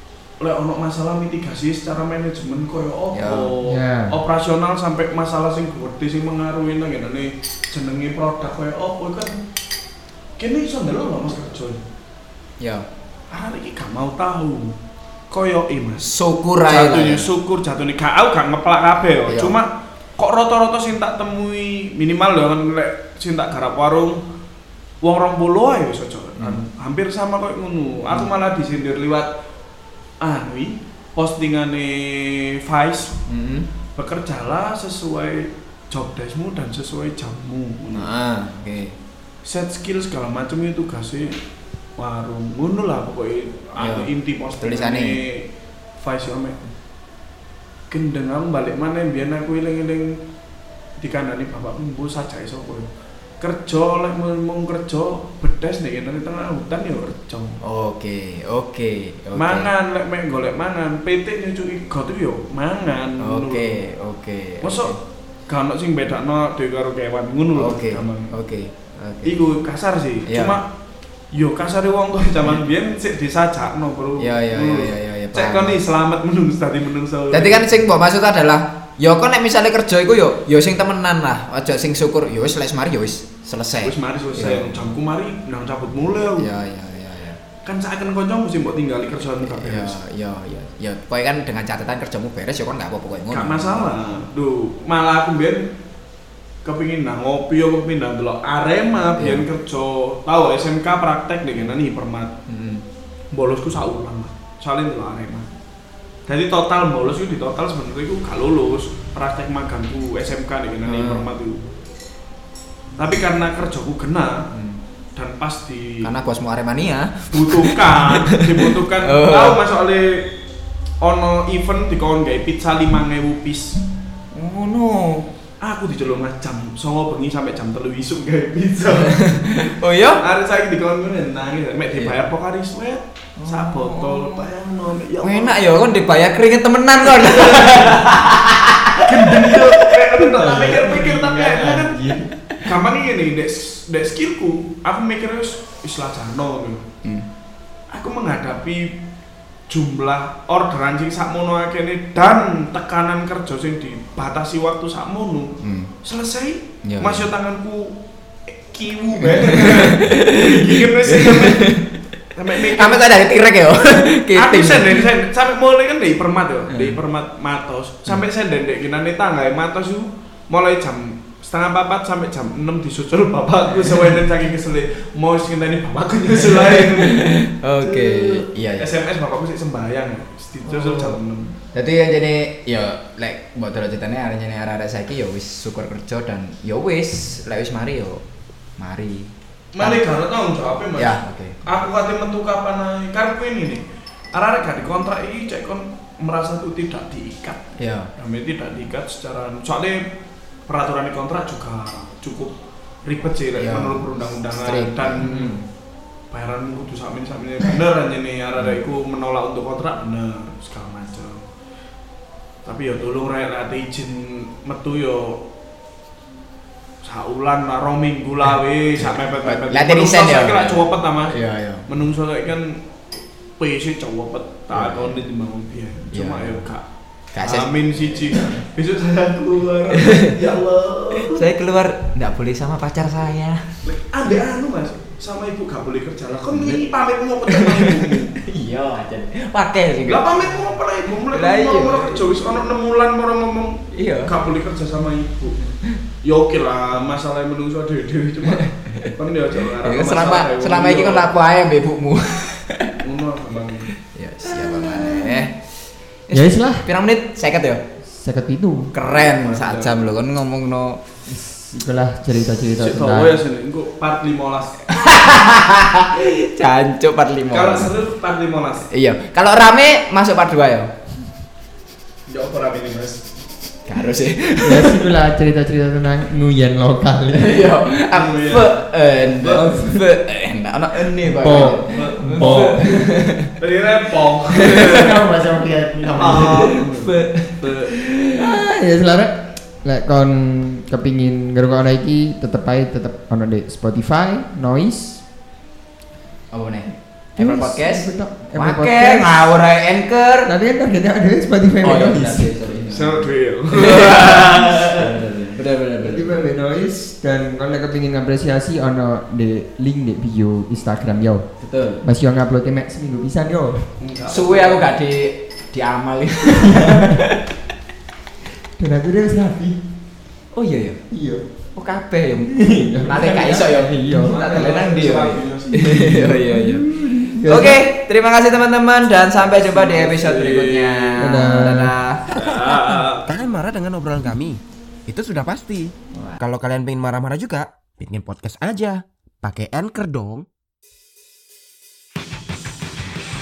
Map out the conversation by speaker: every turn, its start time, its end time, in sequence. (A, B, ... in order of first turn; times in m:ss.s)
0:00.4-0:09.4 A
0:03.1-0:03.5 B
0:03.6-0:04.1 C
0:10.4-0:11.8 A
0:12.6-0:12.9 B
0:13.3-0:14.8 A
0:15.3-0:16.1 A
0:16.0-0:17.3 B
0:16.6-0:24.2 A
0:19.3-0:19.6 B
0:25.0-0:29.3 A
0:30.2-0:33.2 A
0:33.3-0:33.7 B
0:34.0-0:38.1 A
0:37.9-0:39.0 B
0:39.4-0:41.4 A
0:42.0-0:45.5 A
0:43.8-0:45.2 B
0:46.0-0:46.6 A
0:47.9-0:50.2 A
0:51.0-0:52.9 A
0:53.4-0:57.6 A
0:57.6-0:59.7 B
0:59.4-1:03.8 A
1:03.2-1:05.0 B
1:04.6-1:05.0 A
1:05.5-1:08.3 A
1:07.6-1:09.4 B
1:09.2-1:10.7 A
1:10.3-1:10.6 B
1:11.3-1:17.7 A
1:14.2-1:15.8 B
1:17.3-1:24.8 B
1:23.8-1:26.5 A
1:26.4-1:27.4 B
1:27.6-1:30.0 A
1:29.4-1:33.9 B
1:33.3-1:35.7 A
1:36.6-1:42.3 A
1:39.2-1:39.4 B
1:42.5-1:42.8 B
1:43.3-1:45.5 A
1:46.3-1:51.6 A
1:50.9-1:51.3 B
1:53.0-1:54.5 A
1:54.5-1:54.8 B
1:55.2-1:56.1 A
1:56.0-1:59.6 B
1:57.3-2:00.3 A
2:01.0-2:03.8 A
2:04.3-2:05.3 B
2:05.6-2:15.6 A
2:09.0-2:10.2 B
2:13.4-2:14.5 B
2:15.2-2:21.7 B
2:17.2-2:18.0 A
2:19.0-2:22.0 A
2:20.4-2:22.3 C
2:22.6-2:26.9 A
2:27.9-2:29.0 A
2:29.7-2:41.8 A
2:35.6-2:35.9 B
2:36.8-2:37.3 B
2:39.2-2:41.9 B
2:42.4-2:43.1 A
2:42.6-2:45.1 B
2:43.8-3:01.5 A
2:46.7-2:47.0 B
2:53.7-2:54.1 B
2:56.4-2:58.9 B
3:00.7-3:01.2 B
3:01.7-3:08.2 B
3:08.8-3:10.1 B
3:09.7-3:20.1 A
3:11.0-3:11.6 B
3:17.8-3:18.1 B
3:20.7-3:25.6 A
3:23.6-3:25.6 B
3:25.2-3:25.6 C
3:26.3-3:31.4 A
3:32.6-3:35.4 A
3:37.0-3:42.8 A
3:39.0-3:41.8 B
3:43.6-3:46.8 A
3:44.7-3:45.2 B
3:46.1-3:46.6 B
3:47.3-3:48.6 B
3:47.4-3:51.5 A
3:49.9-3:50.4 B
3:51.1-3:53.8 B
3:53.8-3:58.4 A
3:56.5-3:56.8 B
3:57.5-4:00.6 B
4:00.1-4:05.6 A
4:01.2-4:02.3 B
4:03.9-4:04.3 B
4:06.2-4:11.3 A
4:08.5-4:09.1 B
4:09.7-4:13.0 B
4:13.0-4:13.9 A
4:14.0-4:15.6 B
4:16.3-4:17.8 B
4:16.3-4:16.9 C
4:18.1-4:18.9 C
4:18.9-4:21.0 B
4:19.1-4:20.1 A
4:21.3-4:23.4 C
4:22.8-4:24.8 A
4:24.9-4:27.9 B
4:27.5-4:28.9 A
4:28.9-4:30.9 B
4:32.3-4:33.2 A
4:33.9-4:35.1 B
4:34.6-4:37.6 C
4:37.3-4:43.5 B
4:38.1-4:39.6 A
4:39.5-4:40.0 C
4:41.3-4:43.1 C
4:41.5-4:42.9 A
4:43.6-4:45.2 A
4:44.5-4:45.0 B
4:44.7-4:46.8 C
4:46.2-4:48.0 A
4:46.5-4:48.6 B
4:48.3-4:55.2 C
4:56.5-5:00.5 B
4:57.4-4:59.3 C
5:00.4-5:02.5 C
5:01.8-5:06.4 B
5:02.9-5:05.2 A
5:06.0-5:11.4 C
5:11.6-5:12.0 B
5:12.0-5:13.9 C
5:14.0-5:14.8 A
5:14.3-5:17.4 B
5:16.7-5:17.2 C
5:18.8-5:19.8 C
5:20.5-5:21.0 B
5:21.1-5:21.4 C
5:21.8-5:26.9 B
5:22.5-5:24.4 C
5:24.2-5:26.4 A
5:25.8-5:27.8 C
5:27.4-5:32.4 B
5:29.4-5:31.3 A
5:31.2-5:31.9 C
5:32.3-5:33.3 A
5:33.3-5:40.5 D